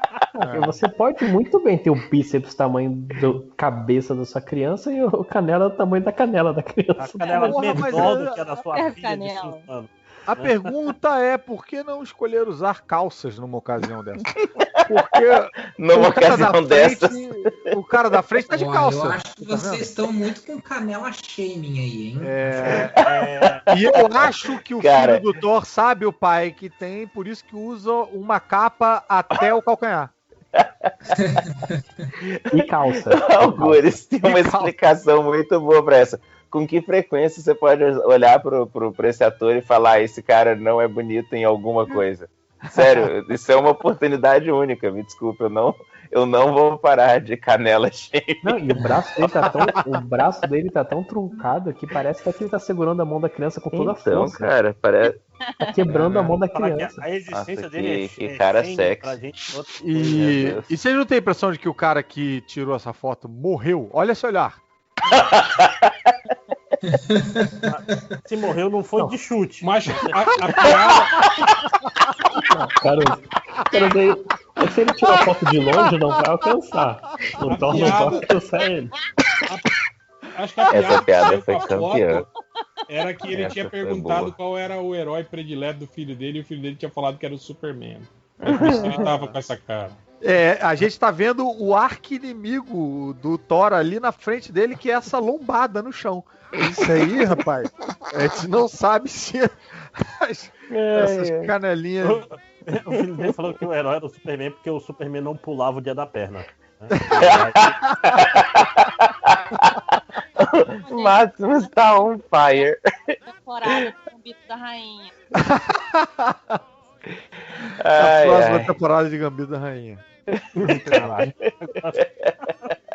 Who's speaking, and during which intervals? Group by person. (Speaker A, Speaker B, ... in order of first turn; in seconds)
Speaker A: 0.4-8.0, 32.5-33.9, 48.4-54.5, 55.6-57.0, 72.5-78.9
Speaker B: 0.4-0.8, 7.4-8.4, 10.3-14.2, 14.9-19.9, 22.2-23.0, 23.7-30.1, 34.2-34.8, 42.8-43.1, 56.0-56.4, 59.8-64.6, 77.5-78.2, 88.5-89.4, 90.2-102.3, 115.4-116.6, 117.9-120.0, 120.9-121.2
Speaker C: 7.0-10.7, 22.7-23.6, 56.5-60.6, 67.7-70.7, 102.0-107.8, 120.6-122.0
Speaker D: 8.7-9.7, 55.5-55.9, 82.8-83.3, 110.9-111.9, 113.3-115.1
Speaker E: 14.4-14.9, 15.8-17.7, 22.6-23.3, 24.0-25.3, 30.6-30.9, 32.2-48.9, 53.7-55.2, 57.3-59.2, 60.1-60.7, 65.1-65.9, 70.7-71.1, 80.7-82.2, 83.3-84.4, 88.4-89.1, 100.7-101.5, 103.2-103.5, 107.3-109.8, 110.4-113.9, 117.8-118.8, 120.3-121.3, 122.2-122.7
Speaker F: 18.5-22.7, 31.1-32.1, 66.9-67.9
Speaker G: 69.6-71.1, 77.5-78.2, 80.3-82.3, 82.9-90.0